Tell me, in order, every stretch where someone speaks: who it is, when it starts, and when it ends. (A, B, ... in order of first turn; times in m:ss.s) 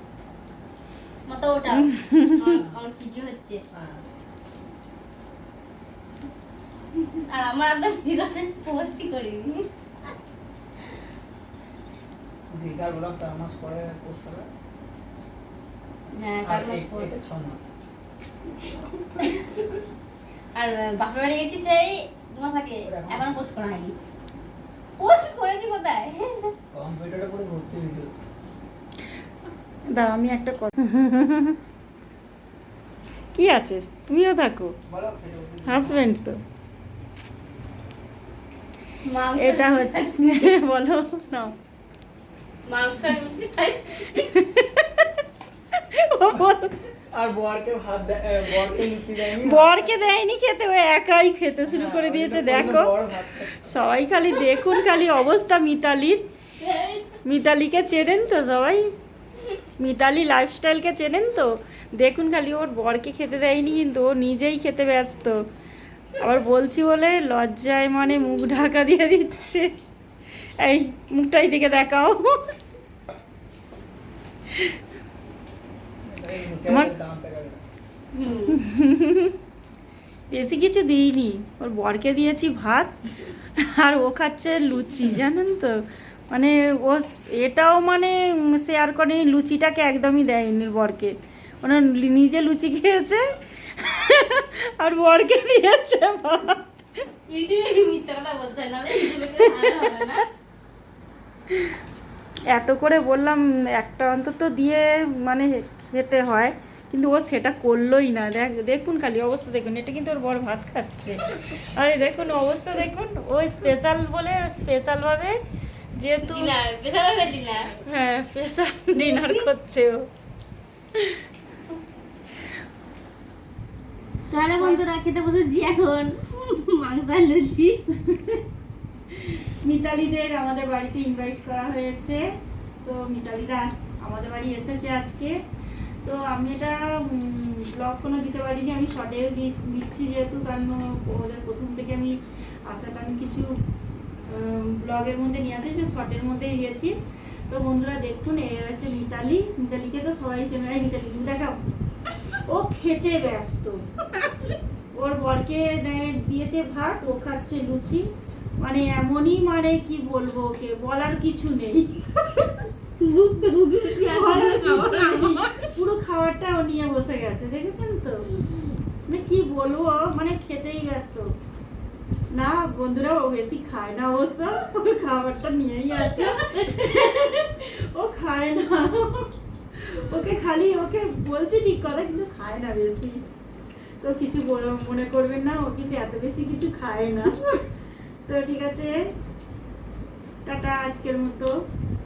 0:01.3-0:03.6 A
0:01.8-0:02.5 B
0:03.7-0:04.0 C
0:07.2-0:09.6 A
0:12.5-0:14.5 C
0:16.1-0:17.1 A
0:16.4-0:17.7 C
0:19.2-0:19.5 A
0:19.2-0:19.6 C
0:20.6-0:24.0 A
0:22.9-0:23.4 C
0:25.0-0:26.5 A
0:26.7-0:28.1 C
0:29.9-0:31.6 B
0:33.4-0:34.7 B
0:34.9-0:36.0 C
0:35.7-0:36.4 B
0:39.0-0:40.5 A
0:39.4-0:41.6 B
0:42.7-0:44.3 A
0:44.2-0:45.1 B
0:45.9-0:46.8 B
0:47.1-0:50.0 C
0:49.3-0:53.0 B
0:51.7-0:53.7 C
0:53.6-0:56.2 B
0:54.4-0:55.0 A
0:56.6-0:57.2 A
0:57.2-0:58.9 B
0:59.8-1:05.4 B
1:06.1-1:09.7 B
1:10.6-1:12.4 B
1:16.1-1:17.6 C
1:16.6-1:17.0 B
1:18.1-1:18.6 A
1:18.3-1:19.4 B
1:20.3-1:22.9 B
1:23.6-1:36.7 B
1:37.3-1:40.3 A
1:39.0-1:39.9 B
1:42.5-1:55.4 B
1:56.0-1:56.6 B
1:56.3-1:57.8 A
1:57.8-2:00.1 B
1:59.0-1:59.5 A
2:01.0-2:01.2 B
2:04.3-2:07.8 A
2:04.5-2:04.8 B
2:08.0-2:08.4 B
2:09.1-2:12.2 B
2:12.8-2:15.4 B
2:16.0-2:23.6 B
2:24.3-2:26.9 B
2:27.5-2:31.6 B
2:32.5-2:33.8 B
2:34.9-2:38.1 B
2:38.6-2:42.5 B
2:43.0-2:45.7 A
2:44.0-2:48.3 B
2:49.1-2:51.3 B
2:52.3-3:03.3 B
2:55.9-2:57.1 A
3:04.0-3:07.4 B
3:08.3-3:09.1 B
3:10.4-3:11.5 B